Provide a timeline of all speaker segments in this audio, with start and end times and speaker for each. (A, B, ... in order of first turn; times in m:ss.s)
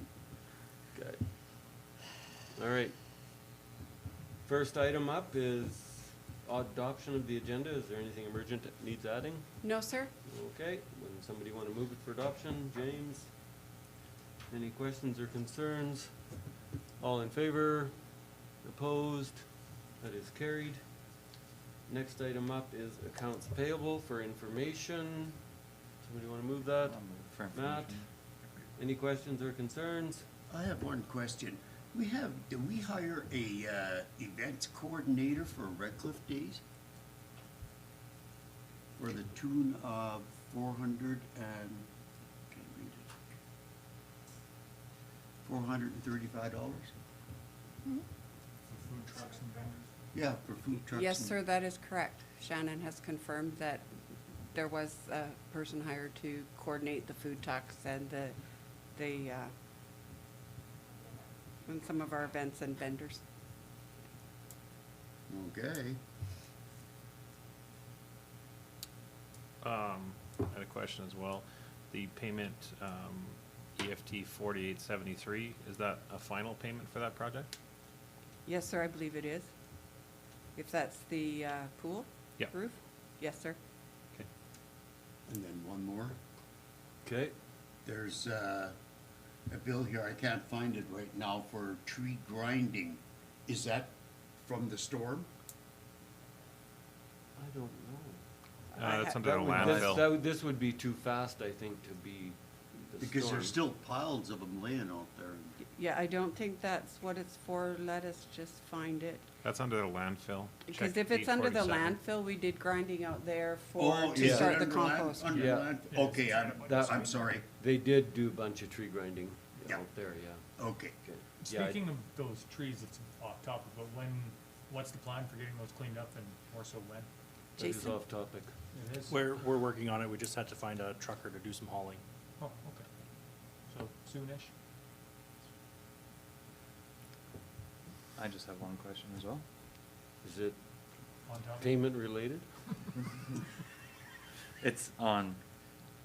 0:00.9-0:01.3 A
0:02.5-0:03.0 A
0:04.4-0:09.7 A
0:09.6-0:10.1 B
0:10.2-0:13.3 A
0:14.5-0:16.3 A
0:17.0-0:18.1 A
0:18.6-0:21.0 A
0:21.9-0:25.4 A
0:26.0-0:28.1 A
0:26.8-0:28.1 C
0:28.8-0:30.3 A
0:30.5-0:36.6 D
0:39.0-0:41.9 D
0:42.5-0:43.1 D
0:45.4-0:46.9 D
0:48.7-0:49.9 E
0:50.1-0:51.4 D
0:50.9-0:53.9 B
0:54.5-0:58.4 B
0:58.9-0:59.5 B
1:01.6-1:03.2 B
1:05.3-1:06.0 D
1:09.6-1:17.5 F
1:18.4-1:19.5 B
1:20.5-1:23.6 B
1:25.3-1:26.2 D
1:27.0-1:27.3 A
1:27.8-1:28.7 D
1:29.5-1:35.3 D
1:37.4-1:38.2 A
1:38.7-1:39.2 B
1:38.8-1:40.0 F
1:39.1-1:43.5 A
1:39.6-1:39.9 D
1:43.0-1:45.6 D
1:45.7-1:49.2 B
1:49.4-1:52.0 F
1:50.7-1:55.4 B
1:53.8-1:57.4 D
1:54.2-1:54.6 A
1:55.3-1:55.8 A
1:55.4-1:57.1 E
1:56.6-2:00.4 A
2:00.6-2:01.0 D
2:01.0-2:01.8 A
2:01.4-2:07.1 E
2:07.6-2:08.0 B
2:07.6-2:08.5 A
2:08.7-2:09.1 E
2:09.1-2:12.0 G
2:12.4-2:12.9 E
2:13.7-2:14.5 E
2:18.2-2:19.4 C
2:20.2-2:20.6 A
2:21.2-2:22.0 E
2:21.6-2:22.5 A
2:24.6-2:25.4 C